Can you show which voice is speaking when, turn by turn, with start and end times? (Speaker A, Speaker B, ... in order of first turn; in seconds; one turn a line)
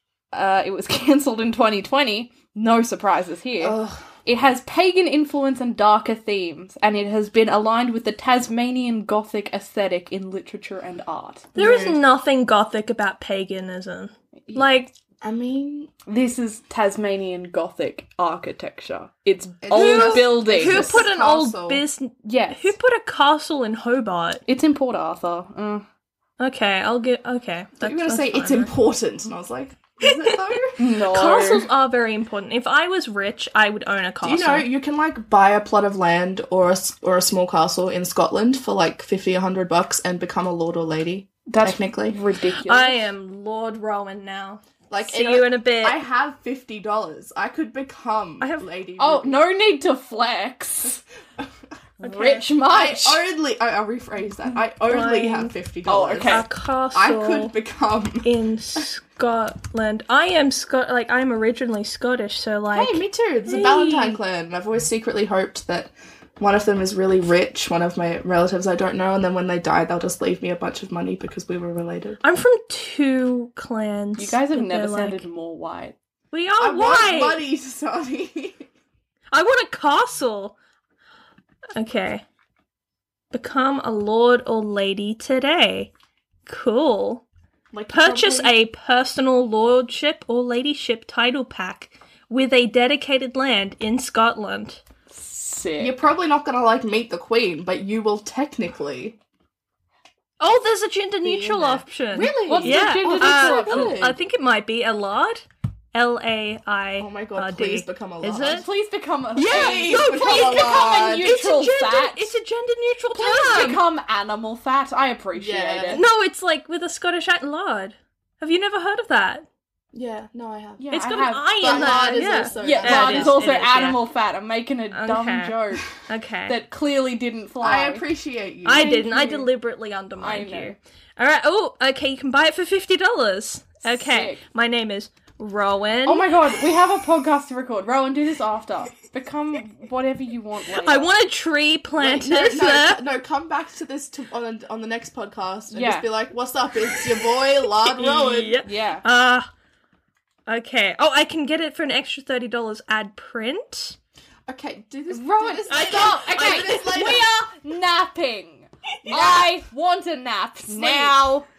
Speaker A: 0.3-11.5
Speaker B: 3.6-4.1
Speaker B: 11.6-12.0
Speaker C: 11.6-14.9
Speaker B: 15.2-15.9
Speaker A: 16.1-21.0
Speaker B: 19.6-21.8
Speaker C: 19.7-24.4
Speaker A: 22.2-22.7
Speaker A: 24.5-25.9
Speaker C: 26.4-28.7
Speaker B: 27.8-30.8
Speaker C: 30.0-30.6
Speaker A: 30.8-31.7
Speaker C: 31.1-34.6
Speaker B: 34.2-42.2
Speaker A: 41.5-43.0
Speaker C: 42.7-46.0
Speaker B: 44.9-49.4
Speaker C: 48.4-48.6
Speaker A: 49.0-51.0
Speaker A: 52.0-53.2
Speaker B: 52.0-58.8
Speaker C: 54.9-55.5
Speaker A: 55.9-56.5
Speaker C: 56.2-57.5
Speaker C: 58.2-64.2
Speaker B: 62.7-72.2
Speaker C: 72.2-75.2
Speaker A: 74.2-75.9
Speaker C: 76.3-77.4
Speaker B: 76.6-78.7
Speaker C: 79.3-80.5
Speaker C: 81.8-82.2
Speaker C: 83.3-85.9
Speaker C: 86.5-87.2
Speaker B: 87.7-88.5
Speaker C: 87.9-94.8
Speaker A: 95.1-96.0
Speaker B: 95.8-99.2
Speaker C: 100.4-108.6
Speaker B: 101.2-104.2
Speaker A: 102.4-104.0
Speaker B: 107.0-108.7
Speaker A: 108.4-112.3
Speaker C: 109.3-113.8
Speaker B: 109.5-111.3
Speaker A: 113.1-116.0
Speaker B: 115.3-116.0
Speaker C: 115.9-119.5
Speaker B: 119.9-120.8
Speaker A: 120.8-125.9
Speaker C: 120.9-124.0
Speaker B: 121.6-123.4
Speaker C: 124.9-126.5
Speaker A: 126.5-128.0
Speaker B: 127.6-129.4
Speaker C: 128.6-136.3
Speaker A: 128.7-129.4
Speaker A: 130.2-130.8
Speaker A: 133.8-134.4
Speaker A: 136.1-141.1
Speaker C: 140.8-143.0
Speaker B: 142.0-148.6
Speaker A: 145.7-146.1
Speaker C: 147.8-149.5
Speaker A: 148.6-149.0
Speaker C: 150.5-154.0
Speaker B: 154.5-157.2
Speaker A: 155.1-161.4
Speaker C: 155.7-157.2
Speaker B: 159.0-159.5
Speaker B: 160.7-161.2